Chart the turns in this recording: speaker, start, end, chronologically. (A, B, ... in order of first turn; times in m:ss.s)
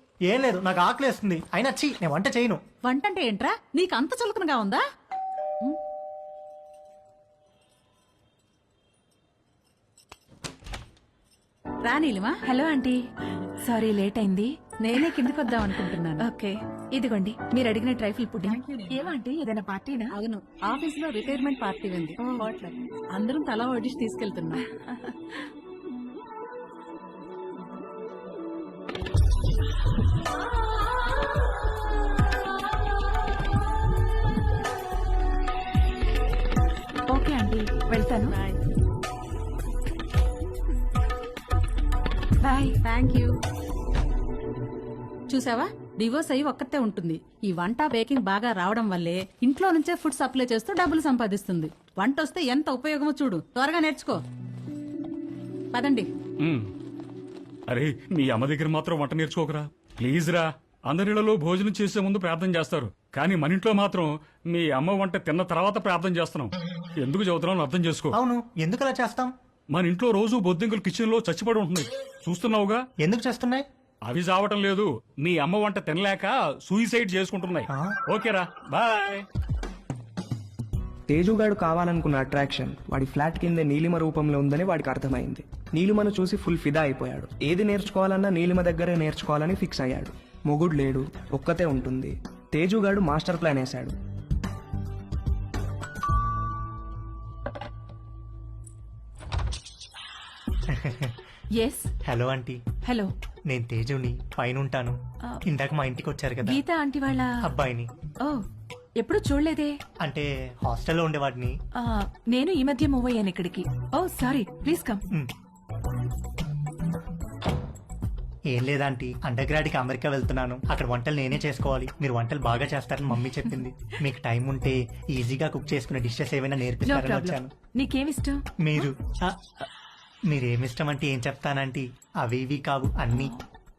0:00.3-0:02.6 A
0:02.8-0:04.8 B
0:11.8-0:12.4 B
0:12.4-0:13.0 C
0:13.6-0:20.1 C
0:14.8-0:16.3 B
0:18.4-0:18.9 B
0:20.1-0:24.6 B
0:22.2-0:22.5 C
0:37.1-0:38.4 C
0:38.3-0:38.6 B
0:42.4-0:42.8 C
0:42.8-0:43.4 B
0:45.3-0:54.2 B
0:55.7-0:56.1 B
0:57.7-1:08.1 D
1:08.1-1:09.3 A
1:09.7-1:12.8 D
1:13.0-1:13.6 A
1:14.1-1:19.2 D
1:17.7-1:18.0 A
1:21.1-1:33.9 E
1:40.7-1:41.2 A
1:41.6-1:41.9 C
1:42.0-1:42.6 A
1:42.8-1:43.1 C
1:43.5-1:46.6 A
1:46.4-1:47.3 C
1:47.4-1:47.9 A
1:49.0-1:49.7 C
1:50.0-1:51.6 A
1:51.8-1:55.0 C
1:58.5-2:07.5 A
2:06.8-2:08.4 C
2:08.6-2:09.6 A
2:10.3-2:13.3 A